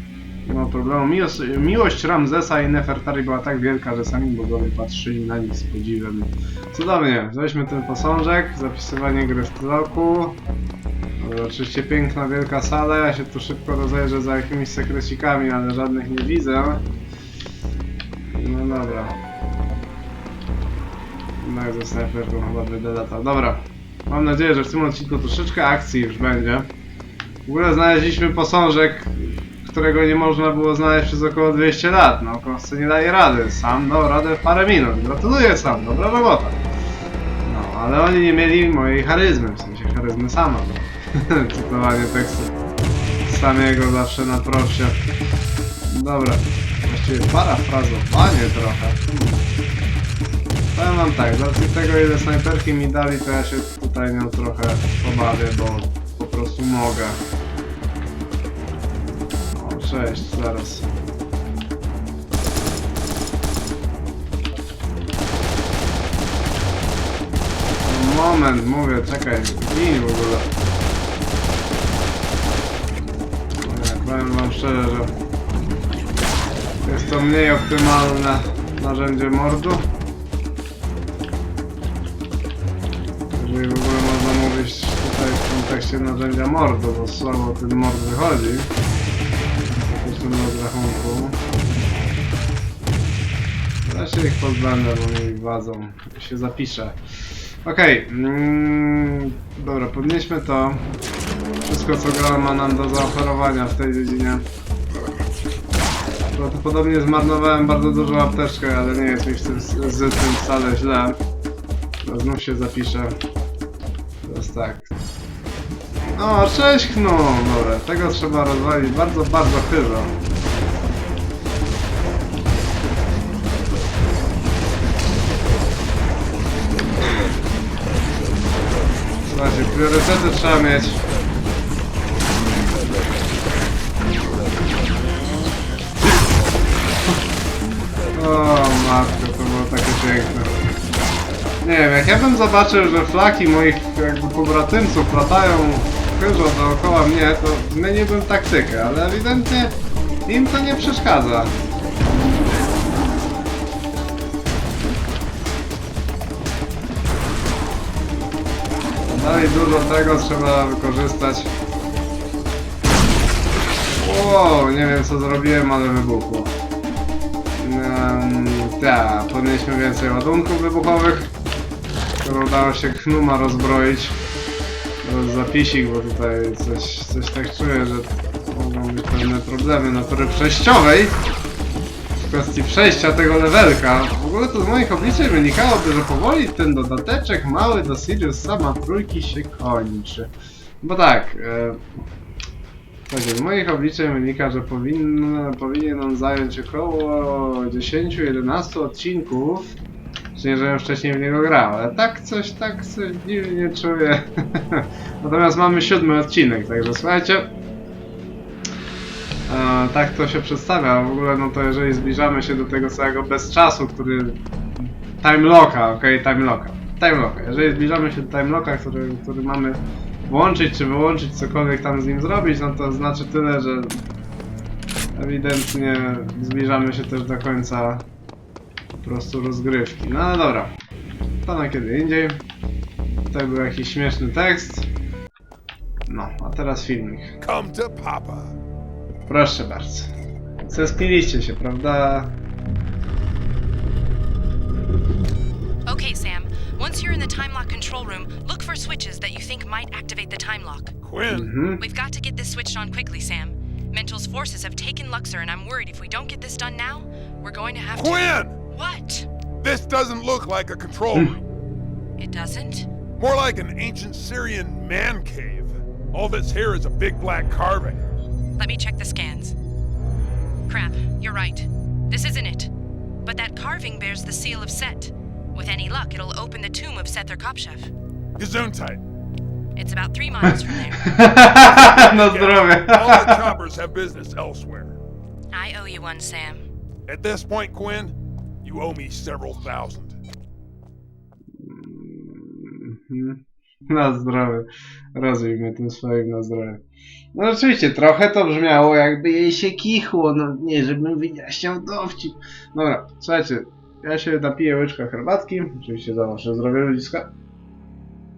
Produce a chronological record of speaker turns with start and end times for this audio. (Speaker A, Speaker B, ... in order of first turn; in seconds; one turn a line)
Speaker A: 0.5-10.4
Speaker A: 11.2-16.8
Speaker A: 18.2-19.2
Speaker A: 21.4-26.7
Speaker A: 27.5-36.6
Speaker A: 37.4-42.5
Speaker A: 43.2-45.0
Speaker A: 45.9-49.4
Speaker A: 50.7-57.2
Speaker A: 59.5-60.9
Speaker A: 67.8-70.5
Speaker A: 73.6-75.2
Speaker A: 76.8-79.9
Speaker A: 83.3-88.7
Speaker A: 89.8-91.5
Speaker A: 93.8-97.0
Speaker A: 97.6-100.8
Speaker A: 101.6-104.5
Speaker A: 106.3-111.2
Speaker A: 112.0-113.2
Speaker A: 114.2-114.9
Speaker A: 116.1-120.1
Speaker A: 129.2-131.0
Speaker A: 138.1-140.5
Speaker A: 141.6-149.7
Speaker A: 150.3-151.5
Speaker A: 159.1-161.5
Speaker A: 164.0-166.5
Speaker A: 167.6-171.3
Speaker A: 172.2-174.2
Speaker A: 175.0-181.2
Speaker A: 182.1-190.3
Speaker A: 190.8-191.9
Speaker A: 193.1-199.7
Speaker A: 200.3-207.5
Speaker A: 209.5-224.0
Speaker A: 225.1-228.0
Speaker A: 229.0-230.8
Speaker A: 231.3-232.4
Speaker A: 233.3-234.9
Speaker A: 236.1-237.4
Speaker B: 237.4-238.6
Speaker A: 239.3-240.1
Speaker A: 240.6-242.3
Speaker C: 245.8-251.0
Speaker B: 251.0-251.5
Speaker A: 251.3-251.8
Speaker C: 251.8-259.3
Speaker B: 257.9-258.6
Speaker B: 259.6-261.4
Speaker C: 262.2-262.9
Speaker B: 263.2-268.0
Speaker C: 268.6-269.6
Speaker C: 270.7-272.7
Speaker C: 273.2-277.9
Speaker B: 278.4-279.0
Speaker C: 279.8-281.4
Speaker A: 280.5-283.5
Speaker B: 281.6-285.0
Speaker C: 285.5-286.6
Speaker B: 287.1-290.2
Speaker A: 291.6-296.8
Speaker A: 297.3-307.3